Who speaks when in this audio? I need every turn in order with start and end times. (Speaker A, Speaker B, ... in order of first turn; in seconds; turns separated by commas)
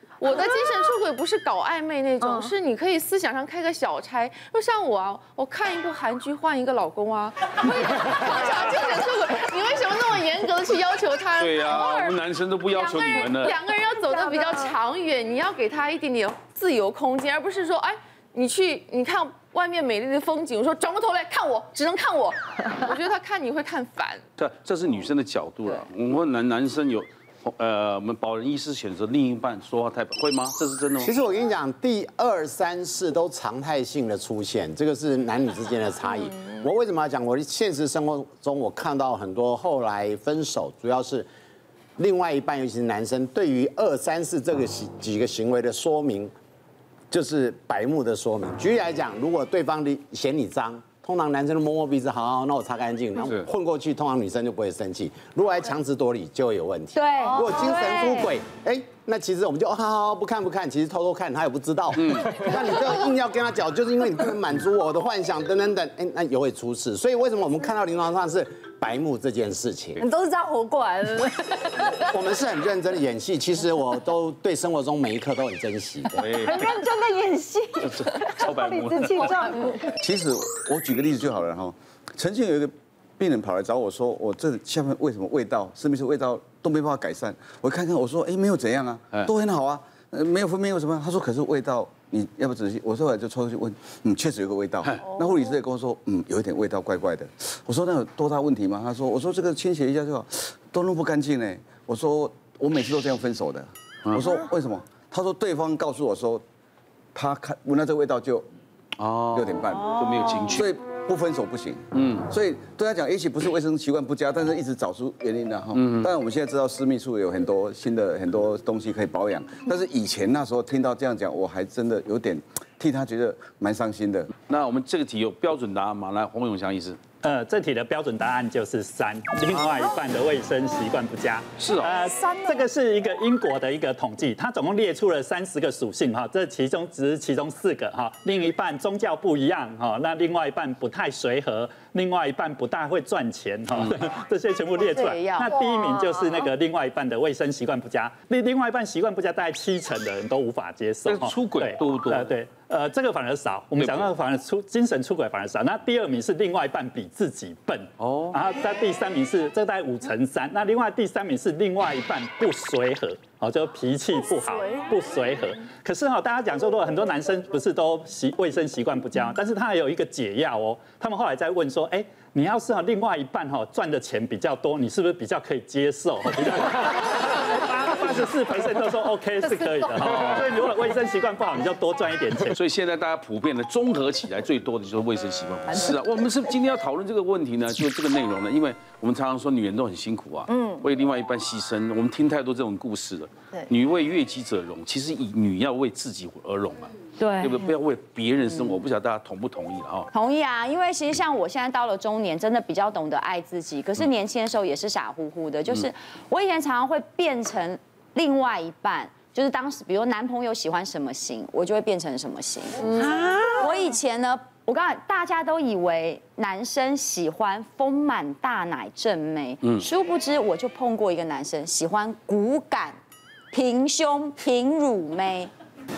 Speaker A: 0.2-12.2, Speaker B: 11.4-13.6, Speaker A: 12.7-24.2, Speaker B: 24.4-31.1, Speaker C: 31.0-41.3, Speaker C: 42.0-46.3, Speaker C: 47.1-70.0, Speaker B: 53.2-53.5, Speaker D: 56.9-58.3, Speaker B: 61.9-62.5, Speaker E: 70.0-72.1, Speaker C: 72.0-76.7, Speaker B: 76.1-76.8, Speaker F: 76.4-79.9, Speaker B: 77.8-79.5, Speaker G: 79.9-106.4, Speaker B: 94.8-95.1, Speaker B: 104.0-104.4, Speaker G: 107.1-108.5, Speaker B: 109.0-110.7, Speaker G: 109.3-124.3, Speaker B: 111.9-112.3, Speaker B: 115.7-116.1, Speaker B: 124.5-127.0, Speaker H: 127.2-182.6, Speaker B: 129.5-129.9, Speaker B: 131.6-132.0, Speaker E: 131.7-132.7, Speaker D: 144.8-145.6, Speaker E: 145.4-146.5, Speaker B: 151.1-152.3, Speaker B: 153.8-154.1, Speaker B: 158.0-158.4, Speaker E: 164.1-165.1, Speaker B: 180.0-180.6, Speaker B: 182.5-200.1, Speaker E: 190.5-190.8, Speaker D: 197.2-197.7, Speaker D: 200.1-213.0, Speaker F: 212.8-213.8, Speaker D: 213.6-223.0, Speaker D: 223.5-225.5